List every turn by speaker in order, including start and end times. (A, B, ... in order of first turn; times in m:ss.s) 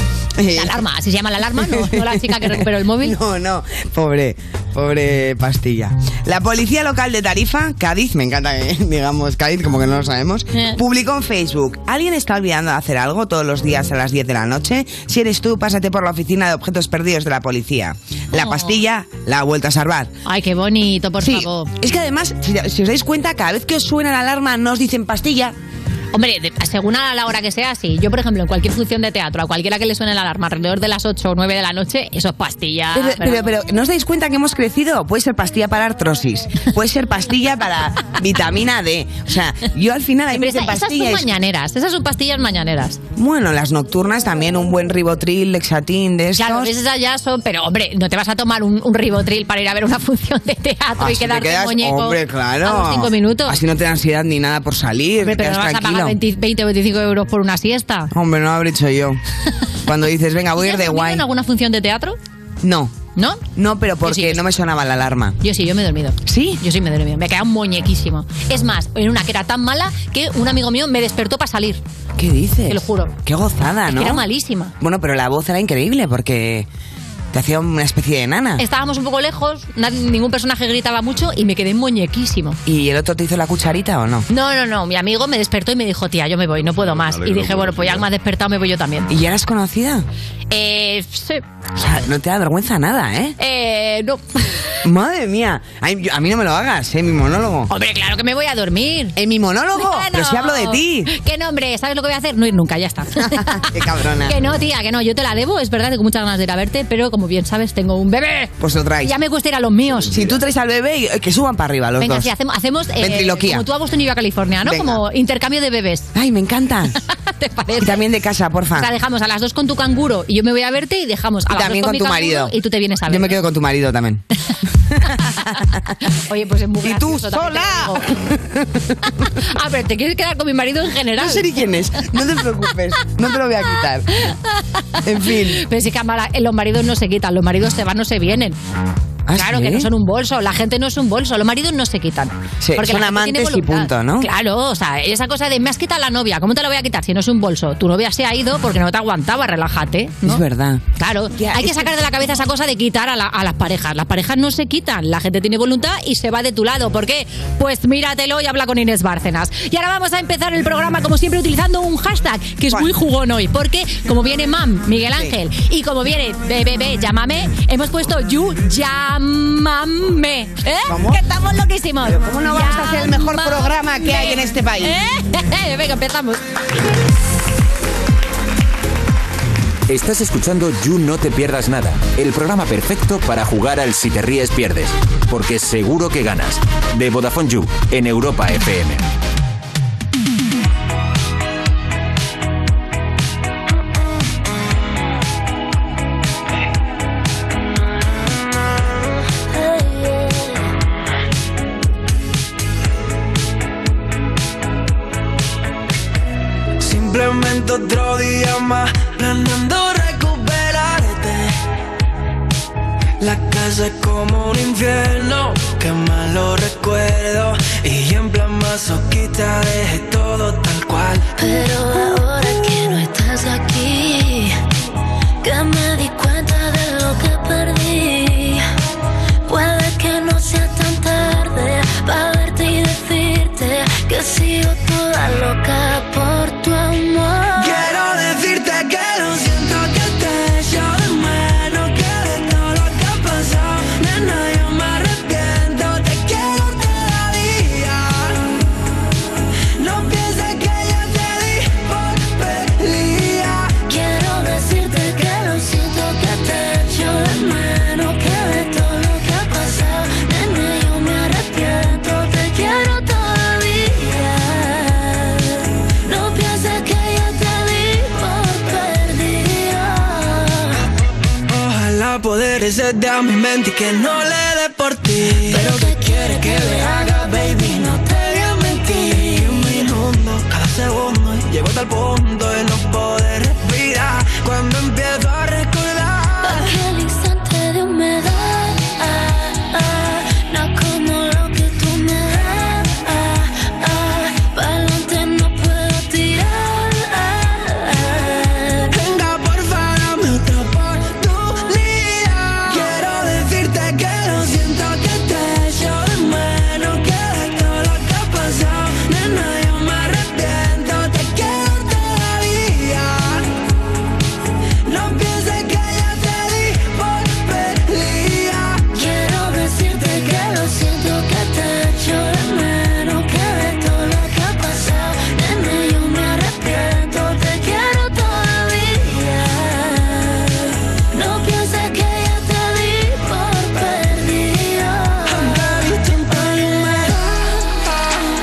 0:00.4-0:00.8 A
0:00.5-0:03.2 B
0:01.6-0:20.1 A
0:18.4-0:18.8 B
0:20.2-0:21.7 B
0:21.2-0:25.6 A
0:26.1-0:33.5 B
0:32.9-0:41.3 A
0:40.3-0:43.0 B
0:43.2-0:46.7 A
0:46.4-0:53.6 B
0:51.0-0:56.2 A
0:55.2-0:58.1 B
0:58.1-0:59.2 A
0:59.8-1:01.2 A
1:00.6-1:02.2 B
1:02.6-1:02.9 A
1:03.2-1:03.4 B
1:03.6-1:05.4 A
1:04.0-1:04.4 B
1:05.4-1:11.8 B
1:06.2-1:06.6 A
1:12.2-1:14.2 A
1:12.7-1:13.1 B
1:13.9-1:14.7 B
1:14.8-1:16.7 A
1:17.3-1:18.6 A
1:18.6-1:22.6 B
1:22.6-1:24.2 A
1:24.3-1:29.1 B
1:29.1-1:30.1 A
1:30.5-1:31.4 B
1:31.8-1:33.4 A
1:33.4-1:34.6 B
1:34.8-1:37.7 A
1:37.7-1:39.1 B
1:39.1-1:41.1 A
1:39.8-1:43.7 B
1:43.2-1:44.4 A
1:44.2-1:50.3 B
1:48.6-1:49.2 A
1:50.1-1:52.3 A
1:52.0-1:56.1 B
1:53.0-1:53.6 A
1:54.6-1:55.0 A
1:56.1-1:57.0 A
1:57.1-1:58.0 B
1:57.8-1:58.9 A
1:58.8-2:03.4 B
2:01.5-2:02.6 A
2:03.1-2:04.2 A
2:04.9-2:05.9 A
2:06.1-2:08.1 B
2:06.8-2:09.0 A
2:09.2-2:11.5 B
2:11.2-2:14.1 A
2:14.2-2:18.6 B
2:15.0-2:15.6 A
2:19.2-2:19.9 A
2:19.3-2:30.4 B
2:22.6-2:24.3 A
2:30.2-2:32.0 A
2:31.0-2:56.4 B
2:50.9-2:51.2 A
2:52.0-2:55.0 A
2:59.9-3:09.0 C
3:19.5-3:20.7 D
3:26.8-3:31.6 E
3:33.2-3:41.3 E
3:41.4-3:44.6 D
3:45.4-3:48.6 D
3:49.5-3:57.9 D
3:57.6-4:08.4 E
4:09.8-4:13.8 E
4:13.8-4:30.8 D
4:31.5-4:46.7 E
4:35.5-4:39.9 D
4:46.4-4:58.9 D
4:58.9-5:13.4 E
5:14.8-5:18.8 E
5:18.9-5:35.9 D
5:35.2-5:37.5 E
5:36.8-5:37.1 D